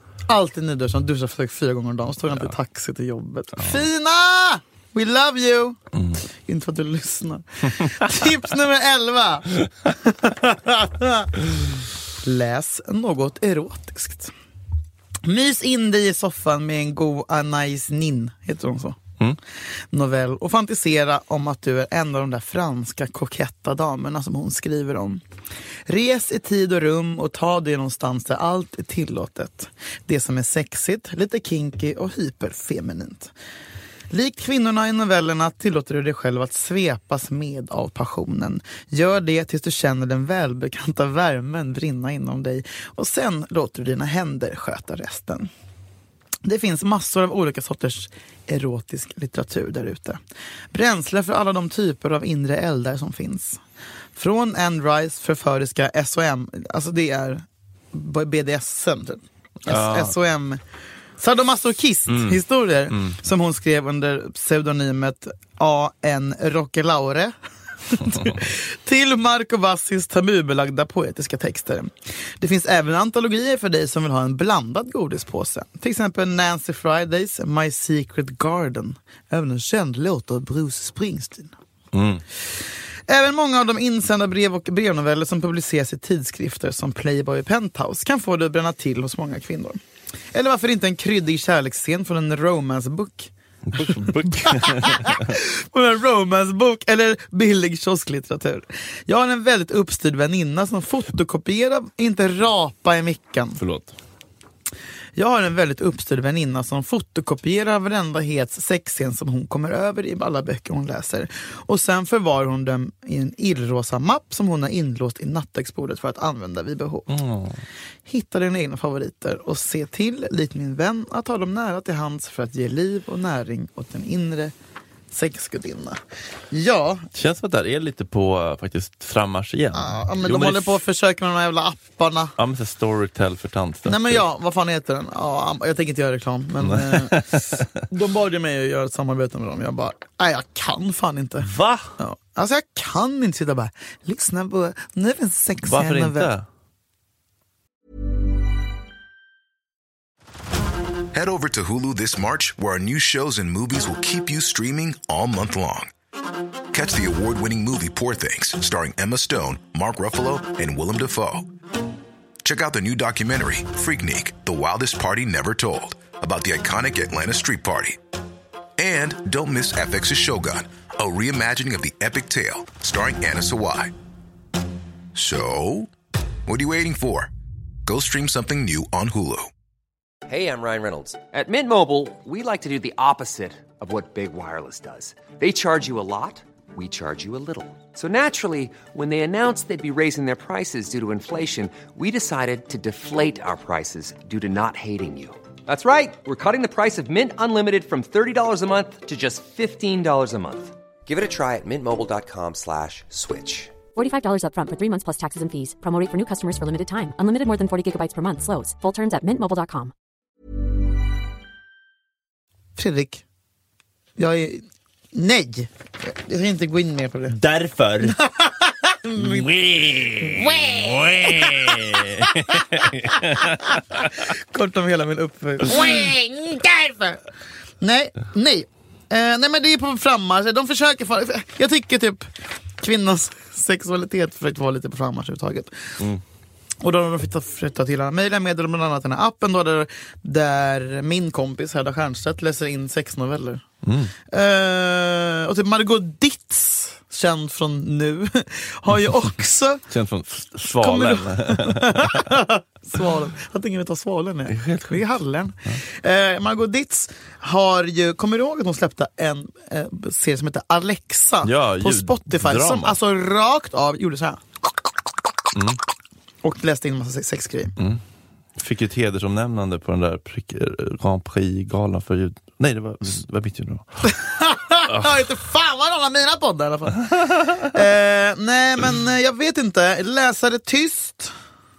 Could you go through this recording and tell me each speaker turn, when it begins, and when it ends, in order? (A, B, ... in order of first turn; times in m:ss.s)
0:00.3-0:05.8 A
0:03.6-0:03.9 B
0:05.9-0:06.2 B
0:06.4-0:11.4 A
0:12.2-0:14.3 A
0:15.2-0:19.0 A
0:19.9-0:25.2 A
0:25.9-0:33.3 A
0:34.1-0:45.5 A
0:46.4-0:50.2 A
0:50.7-0:53.6 A
0:54.2-1:00.6 A
0:59.6-1:00.2 B
1:01.2-1:07.4 A
1:02.1-1:03.2 B
1:07.9-1:21.5 A
1:21.9-1:22.2 B
1:23.1-1:29.8 A
1:30.3-1:43.6 A
1:33.7-1:35.4 B
1:43.6-1:44.0 B
1:45.2-1:57.1 A
1:57.1-1:57.6 B
1:58.1-2:04.5 A
2:05.1-2:06.0 A
2:06.5-2:07.1 A
2:07.1-2:10.8 B
2:09.8-2:12.4 A
2:12.4-2:14.2 B
2:13.8-2:26.3 A
2:16.6-2:17.7 B
2:21.4-2:21.9 B
2:25.6-2:26.5 B
2:31.1-2:35.9 C
2:36.7-2:41.5 C
2:42.4-2:48.0 C
2:48.8-2:53.9 C
2:55.2-2:55.9 C
2:56.5-2:57.3 C
2:57.9-2:59.5 C
3:00.3-3:23.8 D
3:24.0-3:29.9 E
3:32.8-3:33.2 A
3:34.2-3:37.4 A
3:37.3-3:38.2 B
3:38.0-3:39.5 A
3:39.2-3:44.1 B
3:40.2-3:47.2 A
3:47.8-3:55.9 A
3:56.8-4:03.6 A
4:03.8-4:04.1 B
4:04.3-4:09.8 A
4:09.9-4:12.3 B
4:10.8-4:24.4 A
4:14.5-4:15.0 B
4:21.4-4:23.0 B
4:25.5-4:25.8 B
4:26.4-4:27.8 A
4:27.8-4:28.0 B
4:28.6-4:33.9 B
4:34.1-4:41.3 A
4:34.8-4:35.3 B
4:37.1-4:37.7 B